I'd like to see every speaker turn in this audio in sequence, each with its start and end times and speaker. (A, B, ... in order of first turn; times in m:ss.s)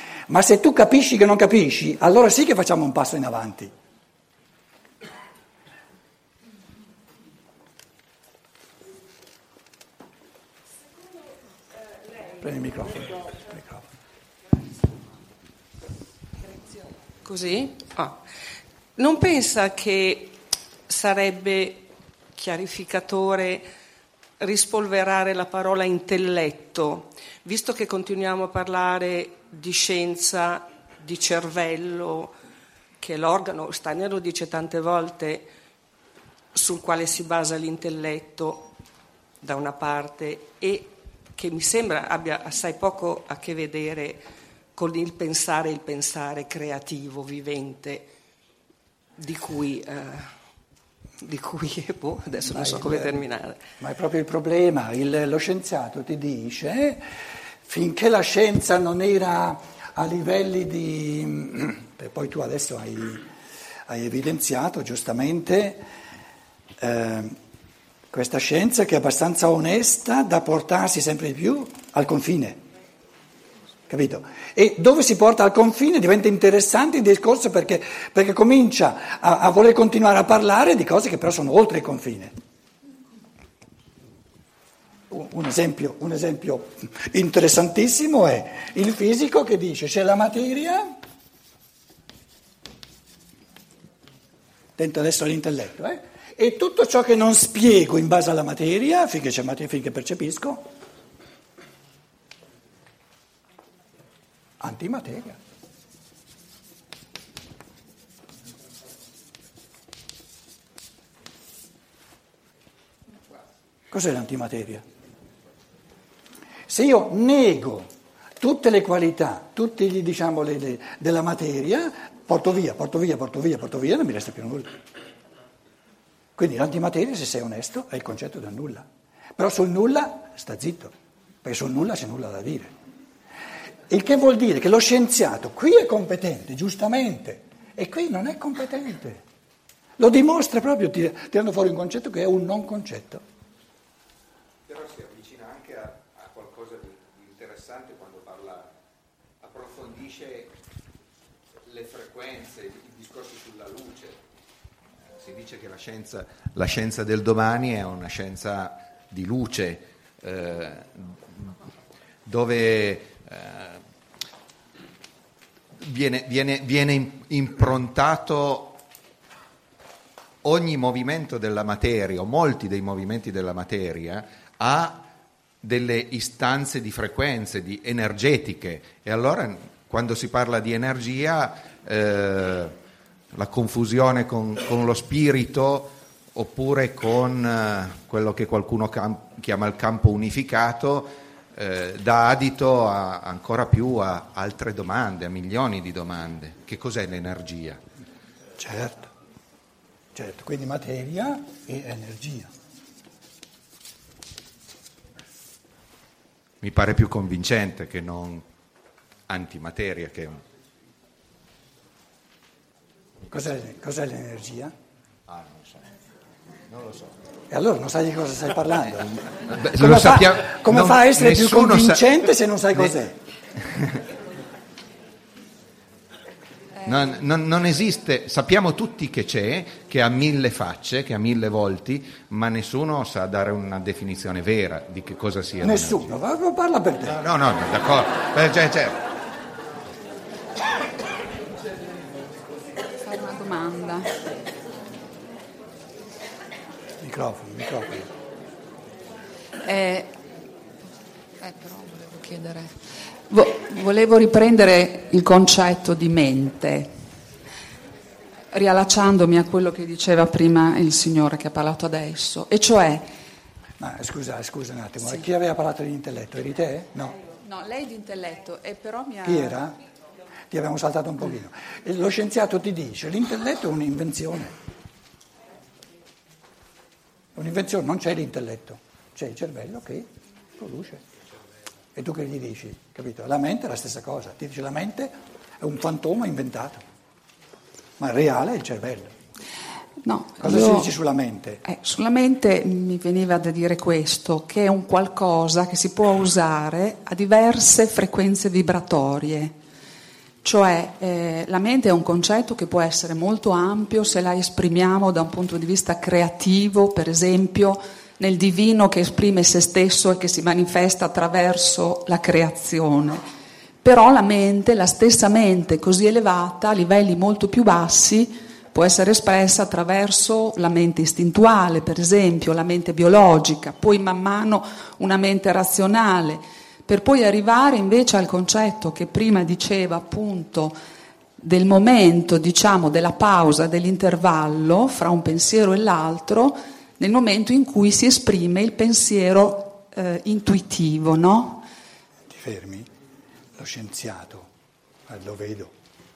0:00.3-0:03.7 A
0:12.4-0:13.9 A
0:17.2-0:18.2 B
0:19.0-0:23.7 B
0:24.4-0:32.4 B
0:33.0-0:35.5 B
0:36.5-0:38.7 B
0:39.4-0:44.2 B
0:44.7-0:48.1 B
0:49.2-0:50.3 B
0:51.2-0:53.6 B
0:52.5-0:53.2 A
0:53.8-0:57.0 A
0:57.6-1:03.3 A
1:03.9-1:05.8 A
1:06.8-1:07.4 A
1:08.1-1:12.6 A
1:13.9-1:22.4 A
1:25.1-1:31.0 A
1:34.8-1:40.7 A
1:44.6-1:45.4 A
1:53.9-1:54.8 A
1:56.7-2:04.8 A
2:06.4-2:10.9 A
2:11.4-2:12.8 A
2:13.9-2:19.2 A
2:20.0-2:23.2 A
2:24.7-2:28.7 C
2:29.4-2:30.5 C
2:31.6-2:34.2 C
2:35.1-2:41.6 C
2:42.2-2:43.8 C
2:45.8-2:48.8 C
2:50.4-2:55.1 C
2:55.6-3:02.8 C
3:03.3-3:17.8 C
3:18.6-3:19.1 A
3:20.2-3:22.5 A
3:26.6-3:28.4 C
3:29.3-3:30.4 C
3:33.3-3:34.7 A
3:35.3-3:35.9 C
3:36.7-3:37.2 C
3:37.5-3:43.2 A
3:39.4-3:43.0 C
3:43.6-3:44.0 C
3:46.8-3:56.1 C
3:55.6-3:57.2 A
3:57.0-3:59.0 C
4:03.0-4:04.1 D
4:07.0-4:08.1 A
4:09.6-4:10.1 D
4:11.4-4:12.8 D
4:13.3-4:16.9 D
4:18.5-4:23.1 D
4:23.8-4:27.2 A
4:27.4-4:29.6 D
4:29.2-4:29.8 A
4:30.5-4:34.6 A
4:37.4-4:41.0 A
4:42.0-4:46.8 A
4:48.0-4:49.1 A
4:50.0-4:50.9 D
4:50.4-4:51.6 A
4:51.7-4:59.5 D
5:00.4-5:13.2 D
5:13.8-5:30.8 D
5:31.4-5:41.7 D
5:42.3-5:42.9 A
5:43.6-5:44.5 A
5:45.1-5:45.7 A